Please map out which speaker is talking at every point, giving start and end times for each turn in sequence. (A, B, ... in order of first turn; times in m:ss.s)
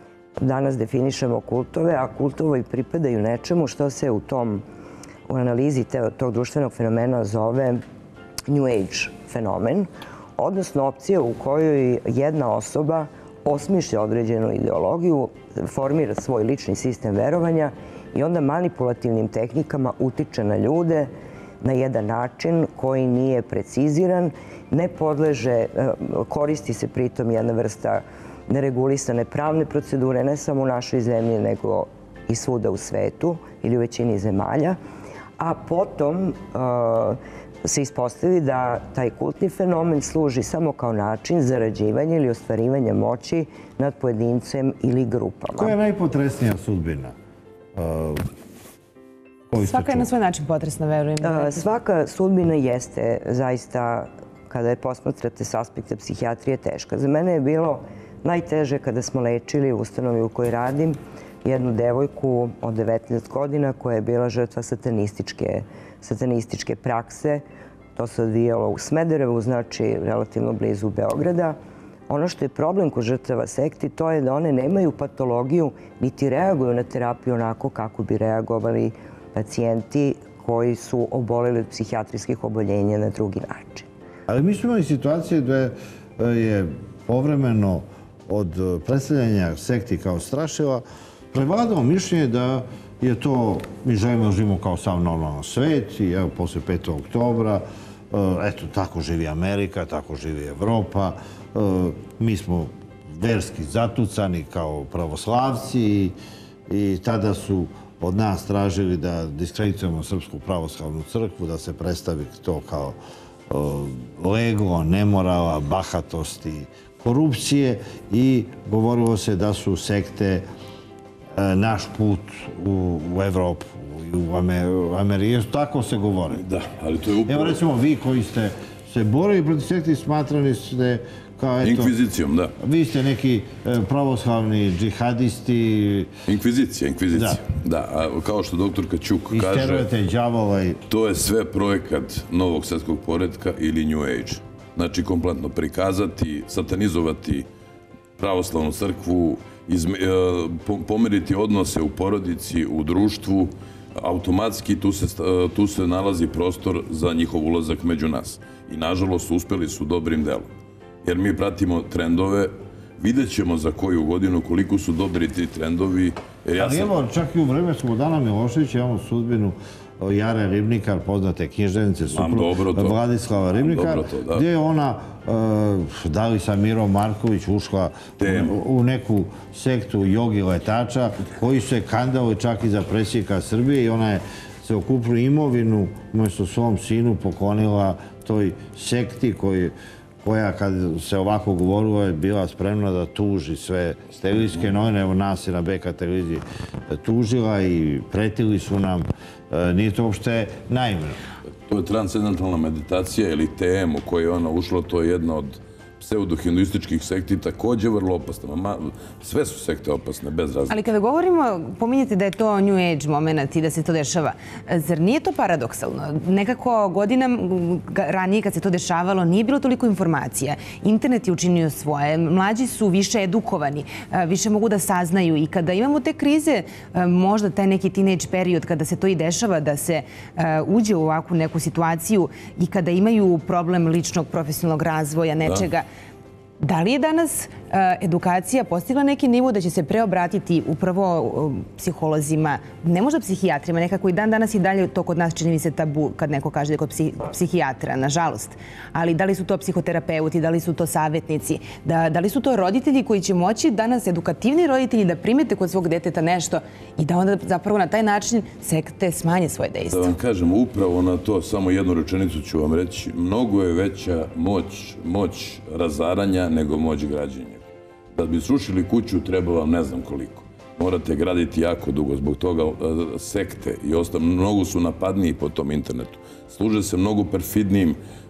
0:00.4-0:04.6 A
0:05.3-0:07.8 A
0:08.5-0:21.1 A
0:21.6-0:34.8 A
0:35.4-0:45.7 A
0:45.6-0:47.1 B
0:47.7-0:48.3 B
0:49.5-0:50.1 B
0:49.6-0:51.7 C
0:51.2-1:07.4 A
1:08.0-1:11.6 A
1:12.1-1:23.9 A
1:24.3-1:46.1 B
1:46.7-1:53.0 B
1:53.5-2:00.4 B
2:01.4-2:06.4 B
2:06.3-2:07.6 D
2:07.3-2:11.9 B
2:11.6-2:12.5 D
2:12.6-2:16.1 B
2:16.3-2:19.8 D
2:17.1-2:17.4 B
2:19.3-2:20.8 B
2:20.9-2:27.5 D
2:28.2-2:40.5 D
2:41.0-2:46.9 D
2:46.6-3:21.2 B
2:52.1-2:53.0 D
2:53.5-2:54.4 D
2:58.2-2:58.6 D
3:21.7-3:30.8 D
3:30.7-3:55.8 C
3:56.6-4:20.2 C
4:19.9-4:27.6 D
4:28.1-4:38.0 D